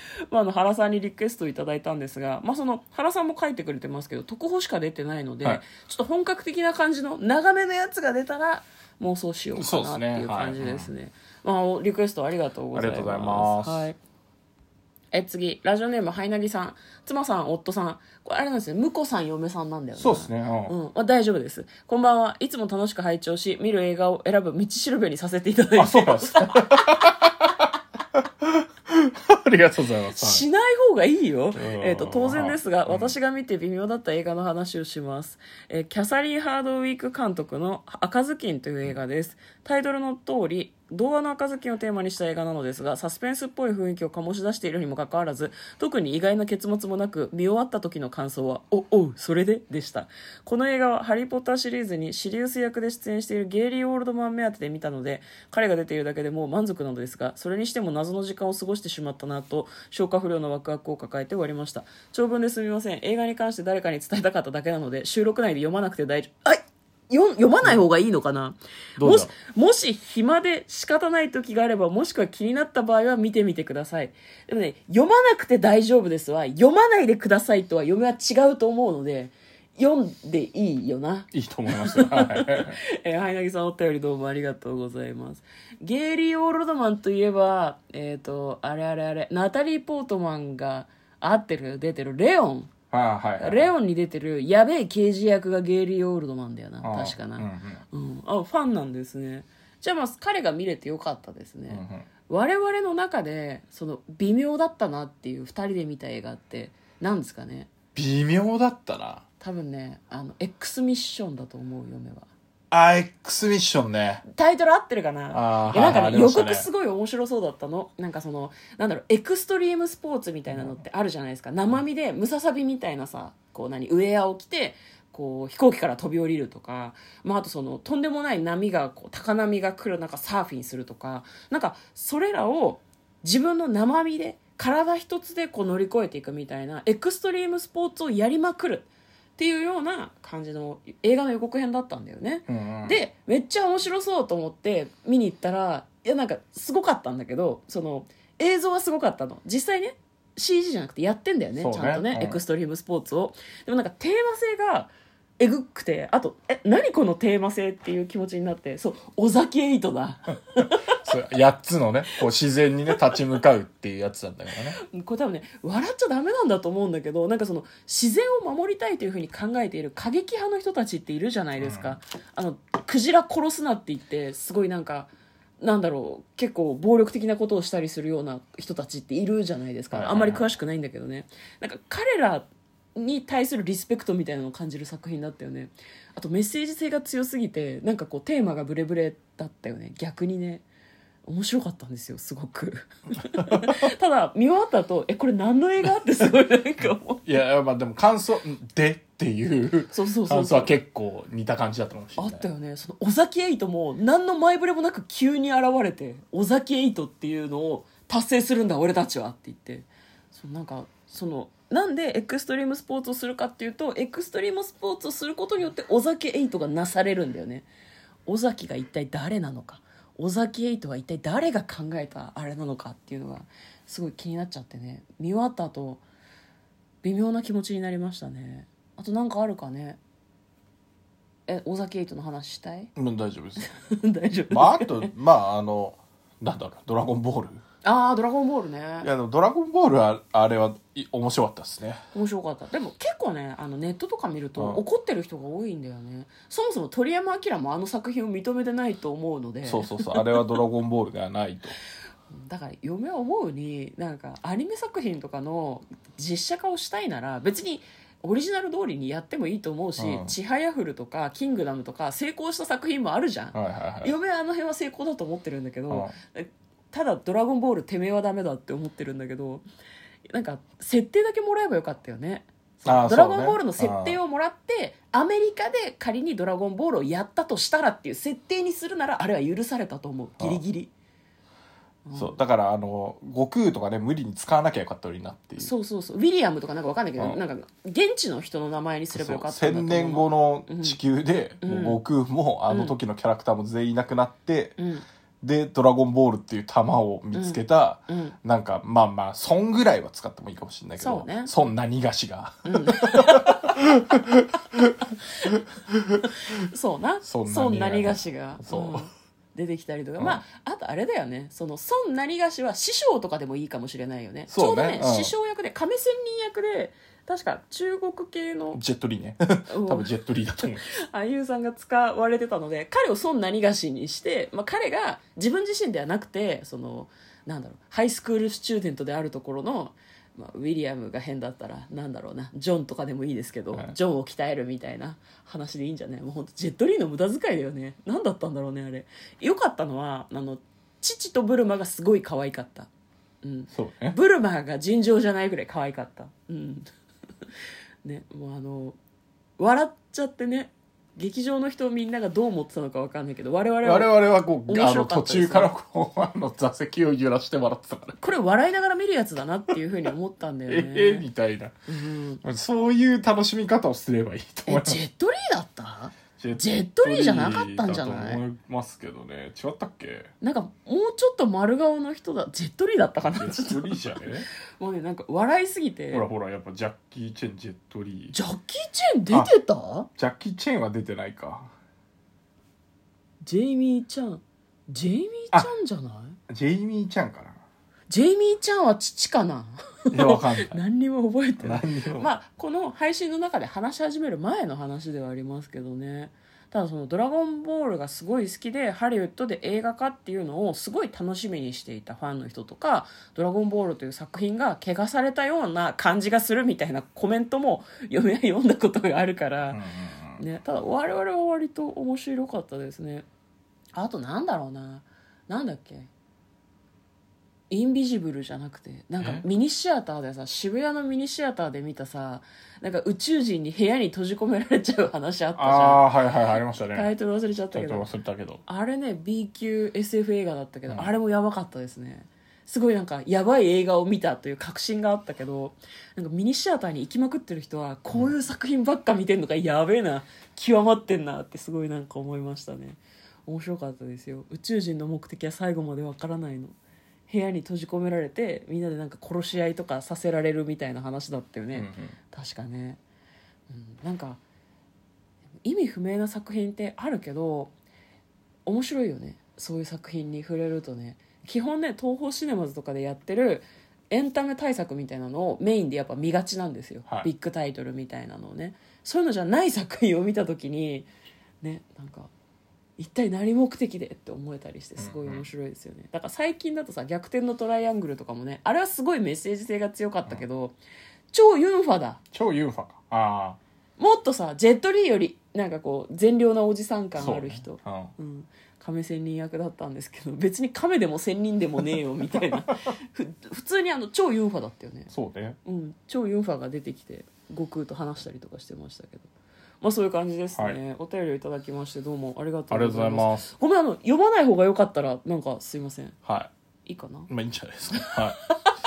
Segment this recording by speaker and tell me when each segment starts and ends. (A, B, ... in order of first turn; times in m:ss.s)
0:00.3-0:14.0 A
0:09.5-0:10.9 B
0:12.7-0:13.9 B
0:15.1-0:27.1 A
0:20.0-0:20.7 B
0:25.8-0:30.4 B
0:30.2-1:32.7 A
0:31.5-0:33.1 B
1:09.0-1:09.3 B
1:21.3-1:22.8 B
1:32.9-1:33.7 B
1:33.4-1:47.7 A
1:36.8-1:37.8 B
1:41.7-1:42.0 B
1:47.9-1:49.2 B
1:49.4-1:52.3 A
1:52.7-1:54.2 B
1:54.2-2:40.9 A
1:55.3-1:56.7 B
2:22.5-2:23.0 B
2:31.6-2:32.4 B
2:40.6-2:44.8 B
2:44.8-3:10.6 A
2:51.6-2:52.0 B
2:59.9-3:00.5 B
3:11.2-3:17.2 A
3:17.2-3:22.4 B
3:19.9-3:20.8 A
3:22.2-3:37.7 A
3:38.3-3:46.0 A
3:47.0-3:50.0 A
3:51.5-3:52.9 A
3:53.0-3:53.7 B
3:53.6-3:55.1 A
3:54.5-3:57.6 B
3:57.8-3:59.1 A
3:59.0-4:02.0 B
4:02.1-4:10.2 A
4:04.6-4:04.8 B
4:09.6-4:11.7 B
4:12.3-4:29.6 A
4:20.0-4:20.3 B
4:23.5-4:24.1 B
4:30.3-4:40.9 A
4:32.8-4:34.2 B
4:42.0-4:42.4 A
4:42.1-4:45.7 B
4:45.6-4:51.0 A
4:49.1-4:54.8 B
4:51.6-4:52.0 A
4:52.7-4:52.9 A
4:54.8-4:55.0 A
4:55.4-5:05.0 B
4:57.3-4:58.4 A
5:01.0-5:01.5 A
5:02.6-5:03.8 A
5:05.5-5:06.2 B
5:06.5-5:18.8 A
5:07.2-5:09.0 B
5:14.5-5:15.3 B
5:18.7-5:20.9 B
5:19.7-5:20.1 A
5:20.9-5:42.9 A
5:43.4-5:46.9 A
5:43.7-5:44.2 B
5:48.0-5:49.0 A
5:49.6-5:55.7 A
5:53.8-5:58.2 B
5:58.2-6:01.3 A
6:00.7-6:01.7 B
6:01.9-6:02.4 A
6:02.4-6:05.0 B
6:04.7-6:08.4 A
6:06.4-6:10.3 B
6:10.4-6:16.2 A
6:13.2-6:14.5 B
6:16.1-6:18.4 B
6:18.3-6:20.1 A
6:20.2-6:21.7 B
6:23.4-6:26.4 A
6:26.5-6:27.6 B
6:28.1-6:49.8 A
6:30.1-6:30.8 B
6:31.6-6:32.3 B
6:49.7-6:50.4 B
6:50.4-6:53.2 A
6:54.0-6:56.1 A
6:57.7-7:06.1 A
6:59.2-6:59.4 B
7:05.6-7:07.1 B
7:06.9-7:08.1 A
7:07.7-7:08.6 B
7:08.6-7:26.7 A
7:27.3-7:33.0 A
7:31.7-7:32.1 B
7:33.7-7:34.4 A
7:35.6-7:37.7 A
7:38.6-7:51.1 A
7:51.6-7:52.3 A
7:53.0-8:00.8 A
7:55.0-7:55.5 B
8:01.3-8:02.2 A
8:02.3-8:03.6 B
8:04.0-8:15.1 A
8:07.2-8:08.1 B
8:15.1-8:15.6 B
8:15.6-8:19.3 A
8:19.8-8:26.2 A
8:22.7-8:23.5 B
8:26.2-8:26.5 B
8:26.8-8:27.3 A
8:27.3-8:28.4 B